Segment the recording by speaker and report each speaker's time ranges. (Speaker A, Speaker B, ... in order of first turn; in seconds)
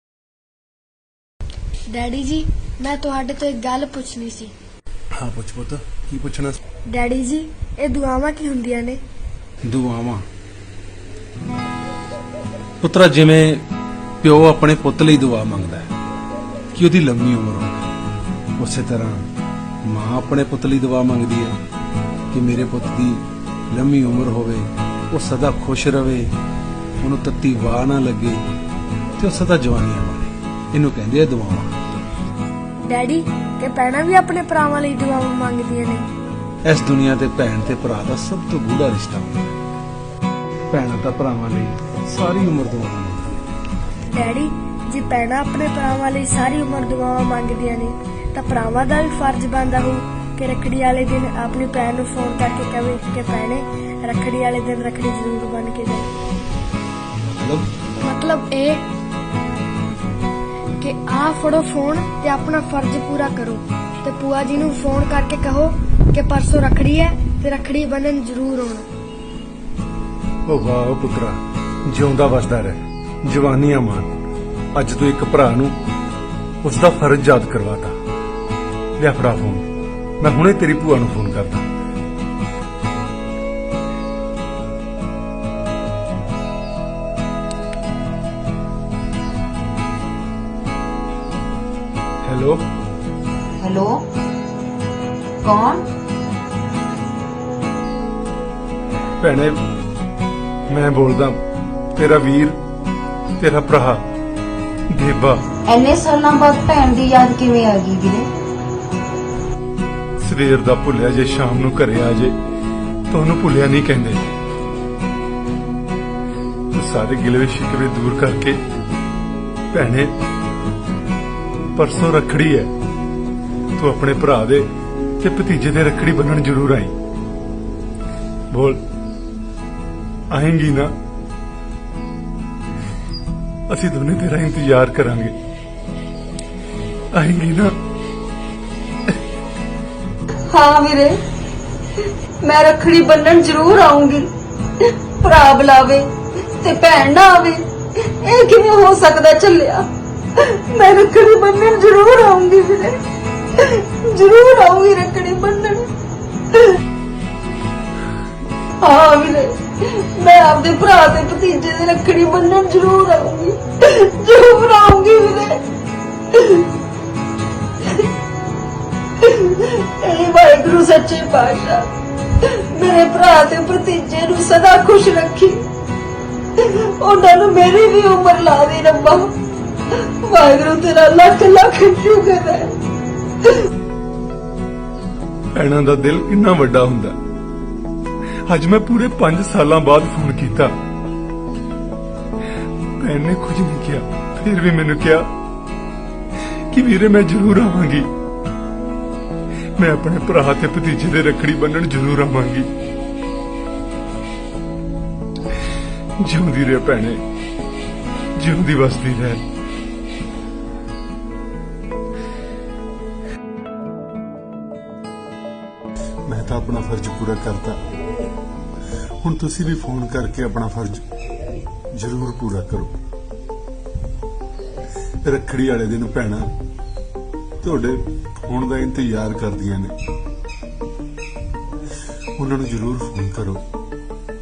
Speaker A: 1.9-4.5, 6.9-9.0, 32.9-36.1, 44.1-56.1, 58.0-58.9, 60.8-68.9
Speaker B: 5.2-6.6, 9.7-10.2, 12.8-13.6, 14.2-15.9, 16.8-17.8, 18.6-19.2, 19.9-21.6, 22.3-26.3, 27.0-28.4, 29.2-31.8, 36.7-39.6, 40.7-43.4, 57.3-57.7, 70.5-74.2, 74.8-75.8, 76.6-78.0, 79.0-79.7, 80.2-81.6, 92.2-92.6, 99.2-99.6, 100.7-101.4, 102.0-102.6, 103.4-104.0, 104.9-105.4, 110.2-112.3, 113.1-114.3, 116.7-118.6, 119.7-120.1, 121.8-122.7, 123.8-124.7, 125.2-126.9, 128.5-128.8, 130.3-130.9, 133.7-135.3, 137.1-137.8, 185.6-187.2, 188.5-190.7, 193.0-195.3, 196.7-198.1, 199.8-202.7, 206.2-207.2, 208.4-209.4, 216.3-217.8, 219.2-221.0, 221.9-222.9, 225.2-226.4, 227.6-229.9, 232.4-233.6
Speaker C: 93.6-94.0, 95.4-95.9, 105.7-108.3, 140.5-141.2, 142.0-153.0, 153.6-155.9, 156.5-156.8, 158.8-165.6, 166.3-166.7, 169.2-171.9, 172.4-175.6, 176.6-179.3, 179.9-182.7